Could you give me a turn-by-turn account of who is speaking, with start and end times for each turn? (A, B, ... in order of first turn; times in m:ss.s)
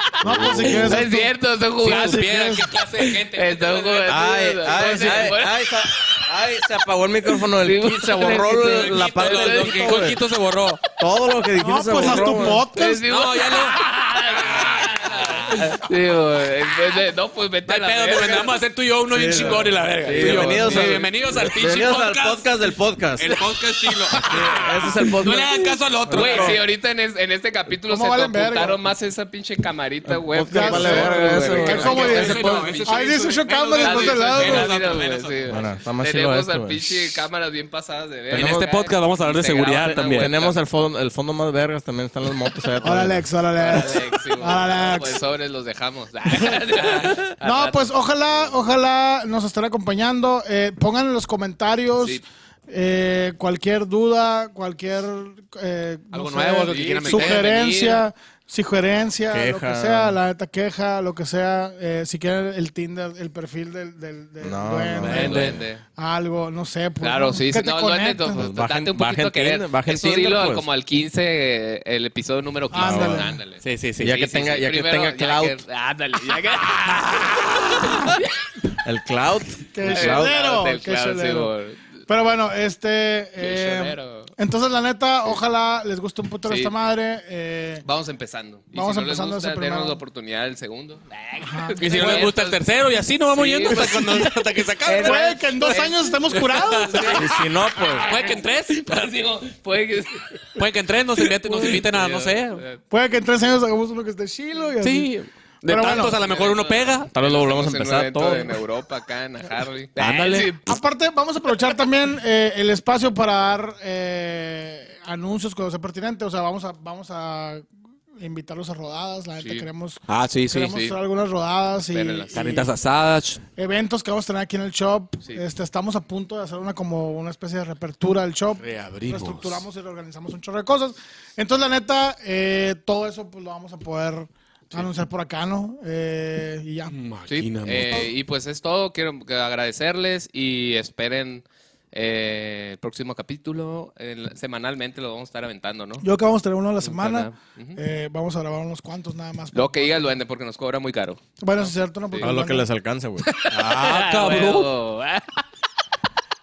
0:00.1-0:05.7 A
0:00.2-0:01.3 B
0:00.2-0:01.1 C
0:00.3-0:01.0 D
0:01.8-0:05.4 D
0:01.8-0:02.7 B
0:04.1-0:10.2 C
0:07.4-0:10.1 A
0:07.8-0:10.8 D
0:11.0-0:12.7 C
0:11.6-0:13.0 B
0:12.0-0:18.6 A
0:13.1-0:15.8 D
0:17.7-0:22.5 D
0:19.1-0:23.3 C
0:19.3-0:21.1 A
0:23.2-0:26.6 D
0:24.1-0:26.6 C
0:26.1-0:40.6 A
0:27.9-0:28.8 B
0:30.1-0:32.7 C
0:30.5-0:34.7 B
0:31.5-0:35.6 D
0:35.5-0:37.2 C
0:38.3-0:38.7 C
0:38.3-0:40.3 D
0:40.1-0:43.2 C
0:42.8-0:45.2 B
0:43.6-0:48.7 A
0:46.8-0:47.2 D
0:47.4-1:08.6 B
0:56.1-0:57.6 D
0:56.7-0:58.0 A
0:59.3-1:00.2 C
1:04.4-1:05.6 C
1:05.0-1:05.6 D
1:05.1-1:05.8 A
1:07.0-1:18.5 A
1:08.4-1:10.7 C
1:12.7-1:13.4 B
1:12.8-1:13.3 C
1:13.6-1:14.2 D
1:14.0-1:15.6 C
1:16.9-1:18.2 D
1:18.8-1:20.3 C
1:19.7-1:21.5 B
1:19.9-1:21.8 A
1:22.1-1:27.8 B
1:23.4-1:24.3 A
1:26.5-1:26.7 A
1:27.8-1:32.6 A
1:28.7-1:30.0 B
1:31.4-1:31.8 B
1:31.8-1:39.2 D
1:33.3-1:34.3 A
1:33.7-1:34.3 B
1:34.8-1:40.4 A
1:35.0-1:37.2 B
1:37.1-1:38.1 C
1:40.6-1:42.6 D
1:41.3-1:42.8 A
1:42.9-1:45.1 B
1:44.8-1:47.1 D
1:45.7-1:46.2 B
1:45.9-1:50.8 A
1:47.1-1:48.6 C
1:50.0-1:50.6 D
1:50.7-1:57.6 B
1:58.2-2:02.7 B
1:59.4-1:59.7 A
2:00.1-2:01.0 D
2:01.9-2:02.4 A
2:02.3-2:03.4 D
2:03.6-2:17.0 B
2:08.6-2:09.6 D
2:16.9-2:18.1 D
2:17.3-2:26.0 A
2:26.0-2:30.1 B
2:26.8-2:27.8 A
2:29.5-2:32.4 A
2:31.4-2:32.7 B
2:32.2-2:33.3 C
2:33.2-2:35.4 A
2:33.5-2:34.7 D